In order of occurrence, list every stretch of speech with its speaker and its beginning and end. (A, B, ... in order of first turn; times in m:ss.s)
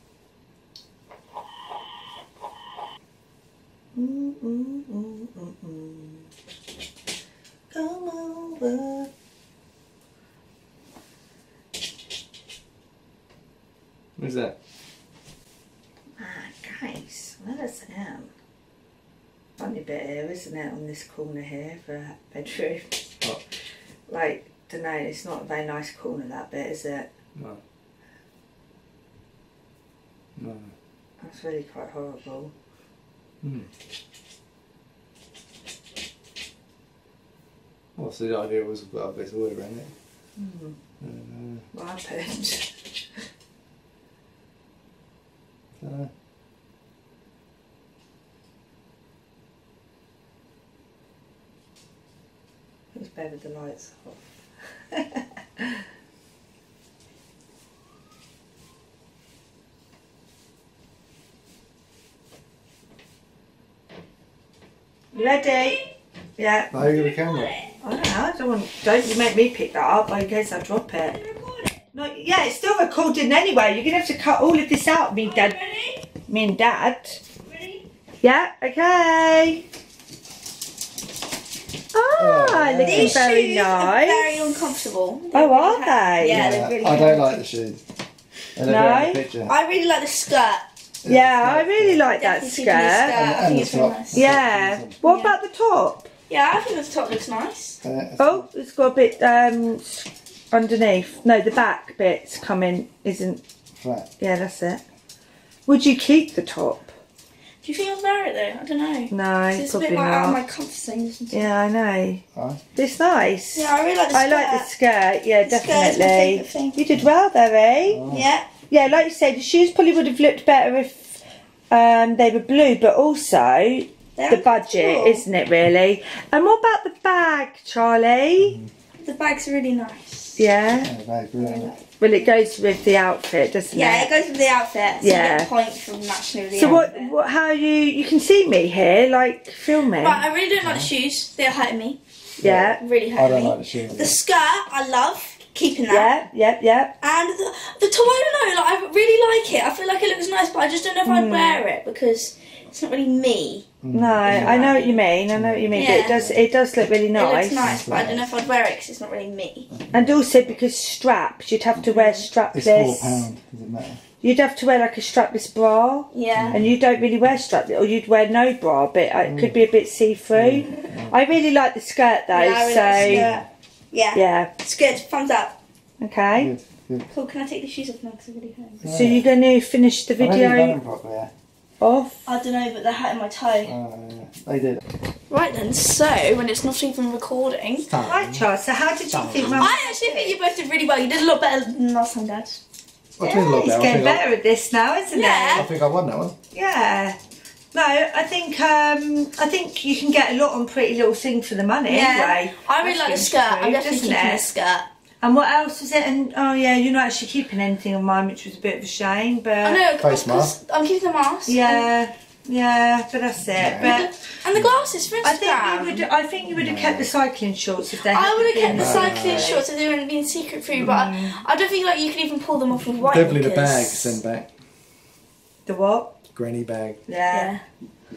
0:03.9-0:06.3 A
0:07.7-0:09.1 A
0:14.2-0:14.6 B
0:16.2-0:18.3 A
0:19.6-0:22.9 A
0:24.1-0:27.1 A
0:27.4-0:27.6 B
0:30.4-0:30.7 B
0:31.2-0:32.5 A
0:33.4-0:33.7 B
0:38.0-0:39.9 B
0:40.4-0:40.8 A
0:41.0-0:41.6 B
0:41.7-0:42.7 A
0:45.8-0:46.1 B
0:52.9-0:54.2 A
0:54.9-0:55.8 A
1:05.1-1:05.8 A
1:05.1-1:05.9 C
1:06.4-1:06.9 A
1:06.7-1:07.5 B
1:06.8-1:07.7 C
1:07.8-1:11.2 A
1:11.1-1:11.8 C
1:11.9-1:15.6 A
1:15.2-1:16.1 C
1:16.3-1:17.2 A
1:17.5-1:17.8 C
1:18.2-1:19.6 A
1:21.9-1:24.5 A
1:22.2-1:23.3 B
1:22.8-1:27.4 C
1:25.3-1:26.5 A
1:26.2-1:27.8 B
1:28.6-1:29.5 B
1:28.6-1:29.2 A
1:29.5-1:30.6 C
1:31.0-1:32.0 B
1:31.0-1:33.2 A
1:32.1-1:34.2 C
1:33.1-1:35.0 B
1:34.1-1:36.1 A
1:35.0-1:35.4 C
1:36.3-1:37.8 C
1:37.8-1:38.5 B
1:38.2-1:43.4 A
1:43.8-1:44.1 B
1:44.2-1:44.8 A
1:45.7-1:46.9 A
1:47.6-1:51.4 C
1:49.1-1:50.4 A
1:51.3-1:52.2 A
1:52.8-1:58.0 A
1:53.6-1:54.7 C
1:55.4-1:56.8 C
1:57.9-1:58.3 B
1:58.1-1:58.5 C
1:58.7-2:08.6 A
2:04.2-2:05.2 C
2:08.4-2:08.7 B
2:09.0-2:10.4 C
2:10.4-2:10.9 A
2:10.7-2:11.8 B
2:11.4-2:11.8 C
2:12.0-2:14.1 A
2:13.7-2:17.1 C
2:15.0-2:15.5 A
2:16.5-2:20.2 A
2:20.0-2:22.0 C
2:20.6-2:20.9 B
2:22.4-2:22.8 A
2:22.4-2:24.2 B
2:22.6-2:26.1 C
2:25.9-2:26.9 A
2:27.0-2:33.7 C
2:31.0-2:31.6 A
2:33.8-2:34.8 B
2:33.9-2:37.8 A
2:34.2-2:35.0 C
2:35.3-2:36.5 B
2:35.7-2:36.2 C
2:37.1-2:39.7 C
2:37.6-2:38.3 B
2:39.8-2:40.2 B
2:39.9-2:43.3 A
2:41.8-2:42.3 C
2:42.5-2:44.0 B
2:44.2-2:53.3 A
2:46.1-2:46.6 C
2:46.3-2:46.8 B
2:49.2-2:49.6 B
2:50.3-2:51.2 B
2:52.3-2:55.6 C
2:52.9-2:53.4 B
2:54.1-2:54.5 A
2:56.0-2:56.5 A
2:56.4-2:57.1 B
2:57.1-2:58.8 C
2:58.8-2:59.3 B
2:58.8-3:00.8 A
3:00.2-3:01.3 B
3:01.8-3:02.3 A
3:02.3-3:03.7 C
3:03.6-3:04.8 B
3:05.3-3:07.9 C
3:07.9-3:08.5 B
3:08.0-3:10.4 A
3:09.1-3:09.7 B
3:09.5-3:12.6 C
3:13.2-3:14.2 B
3:13.2-3:15.7 A
3:15.1-3:15.7 C
3:15.5-3:16.4 B
3:16.5-3:17.2 A
3:17.7-3:24.5 A
3:21.9-3:24.9 C
3:25.2-3:29.8 A
3:29.6-3:31.9 C
3:30.0-3:30.6 B
3:31.5-3:34.1 A
3:33.5-3:34.0 B
3:33.8-3:36.1 C
3:35.2-3:39.6 A
3:36.5-3:37.1 B
3:38.0-3:44.2 C
3:38.7-3:39.6 B
3:40.8-3:41.4 A
3:43.0-3:43.3 A
3:43.1-3:44.5 B
3:45.7-3:46.1 A
3:46.4-3:47.0 B
3:47.1-3:47.5 A
3:47.3-3:47.6 C